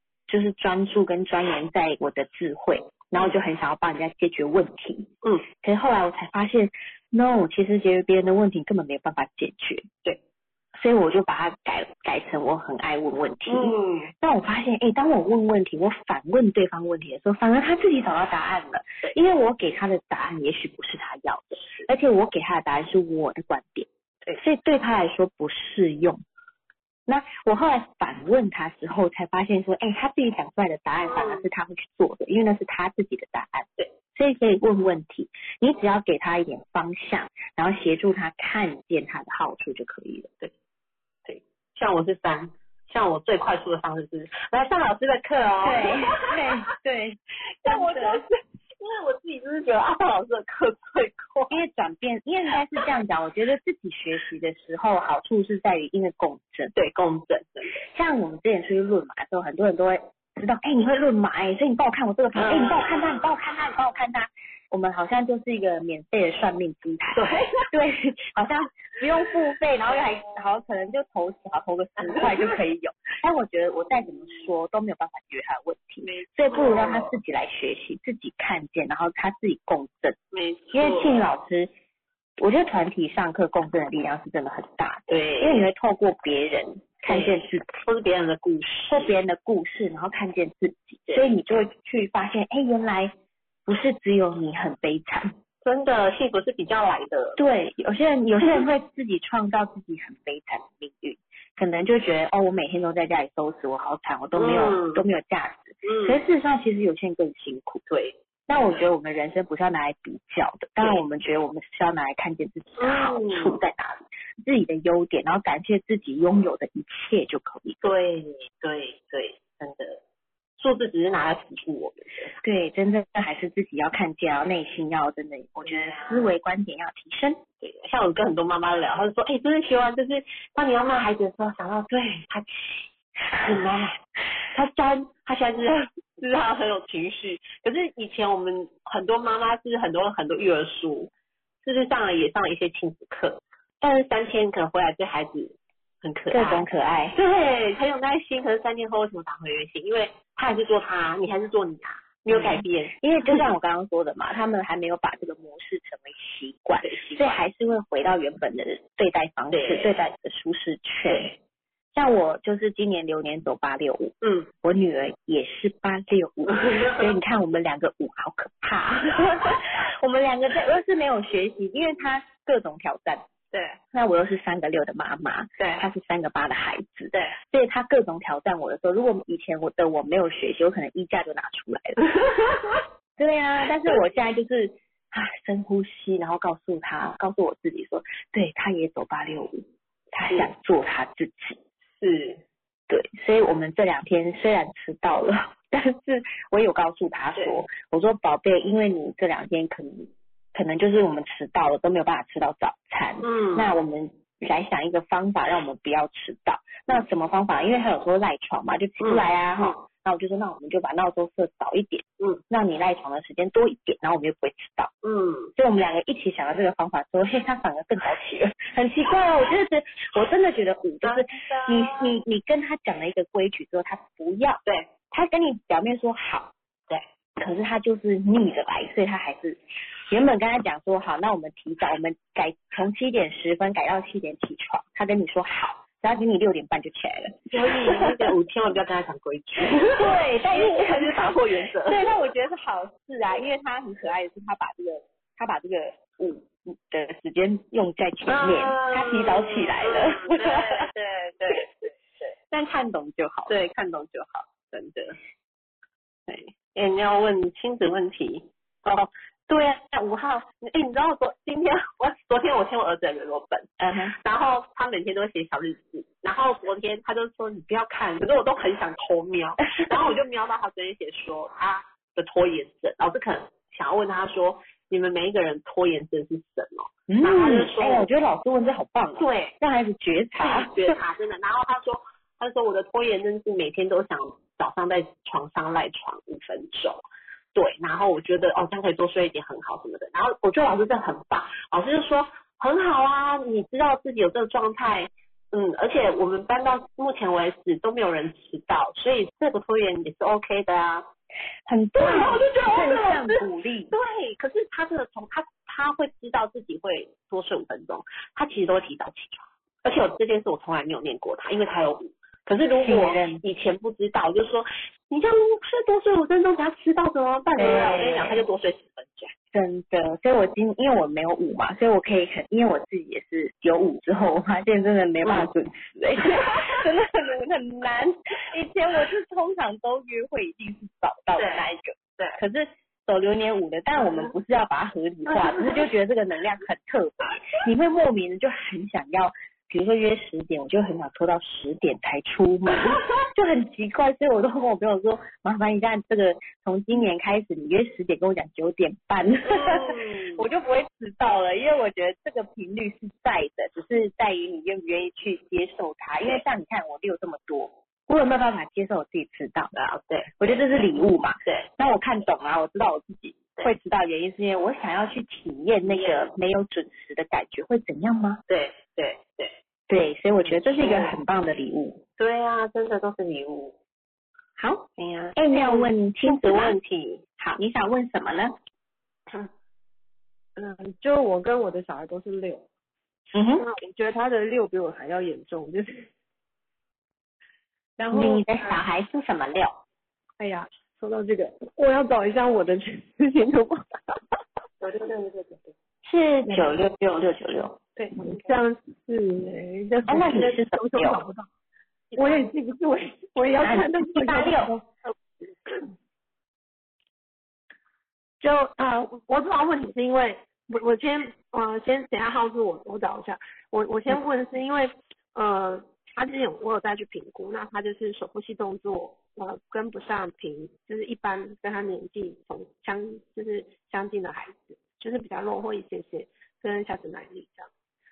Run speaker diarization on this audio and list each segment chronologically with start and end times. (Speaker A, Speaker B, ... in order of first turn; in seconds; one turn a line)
Speaker A: 0.3-5.1
Speaker A: 5.6-9.8
Speaker A: 10.7-26.2
Speaker B: 13.5-14.1
Speaker A: 27.1-40.3
Speaker B: 31.1-31.4
Speaker B: 41.2-46.4
Speaker A: 45.6-48.2
Speaker B: 47.6-51.6
Speaker A: 51.5-56.7
Speaker B: 56.7-57.8
Speaker A: 57.9-80.2
Speaker B: 62.3-63.2
Speaker B: 67.1-67.7
Speaker B: 76.0-77.1
Speaker B: 80.3-81.2
Speaker A: 80.7-81.7
Speaker A: 82.4-87.7
Speaker B: 85.1-85.7
Speaker B: 87.0-89.1
Speaker A: 88.9-93.1
Speaker B: 91.1-91.3
Speaker A: 93.7-95.3
Speaker B: 95.6-97.4
Speaker A: 97.4-107.8
Speaker B: 104.3-105.0
Speaker B: 105.8-106.2
Speaker B: 107.9-108.8
Speaker A: 108.5-117.9
Speaker B: 112.8-113.6
Speaker B: 117.8-120.0
Speaker B: 120.6-122.3
Speaker A: 122.4-127.4
Speaker B: 125.6-126.3
Speaker B: 127.6-134.0
Speaker B: 134.5-141.1
Speaker B: 141.6-153.4
Speaker A: 146.3-147.2
Speaker A: 152.3-161.3
Speaker B: 156.8-157.4
Speaker B: 159.5-159.9
Speaker B: 161.1-161.3
Speaker A: 161.9-173.2
Speaker B: 164.2-164.5
Speaker B: 166.5-167.1
Speaker B: 173.5-173.8
Speaker A: 173.9-182.0
Speaker B: 175.6-175.8
Speaker B: 182.2-182.8
Speaker A: 183.2-191.6
Speaker B: 192.0-192.4
Speaker A: 192.9-214.9
Speaker B: 203.2-203.7
Speaker B: 209.0-209.8
Speaker B: 215.0-215.5
Speaker A: 215.6-226.5
Speaker B: 221.0-222.2
Speaker A: 227.4-238.2
Speaker B: 237.5-242.0
Speaker A: 239.8-250.9
Speaker B: 248.3-251.9
Speaker A: 252.5-253.6
Speaker B: 253.5-255.2
Speaker B: 256.3-278.1
Speaker A: 263.8-264.1
Speaker A: 277.1-280.9
Speaker B: 279.2-279.5
Speaker B: 280.4-301.1
Speaker A: 301.6-303.9
Speaker B: 302.0-319.3
Speaker A: 312.8-313.4
Speaker A: 317.6-318.4
Speaker A: 319.5-359.7
Speaker B: 326.3-326.7
Speaker B: 331.4-332.4
Speaker B: 349.4-350.4
Speaker B: 359.7-360.4
Speaker A: 360.4-368.4
Speaker B: 365.8-366.2
Speaker B: 368.5-369.5
Speaker A: 369.9-372.0
Speaker B: 370.4-371.1
Speaker B: 372.2-373.7
Speaker A: 374.6-376.8
Speaker B: 375.0-377.2
Speaker A: 377.4-378.6
Speaker C: 380.6-382.7
Speaker A: 383.3-383.6
Speaker C: 383.6-386.1
Speaker C: 388.0-388.8
Speaker A: 388.1-389.8
Speaker C: 390.4-394.2
Speaker C: 394.8-395.7
Speaker A: 396.0-397.8
Speaker C: 396.5-396.7
Speaker C: 397.9-401.5
Speaker A: 400.1-401.2
Speaker C: 402.1-405.9
Speaker A: 403.6-404.7
Speaker C: 408.4-427.7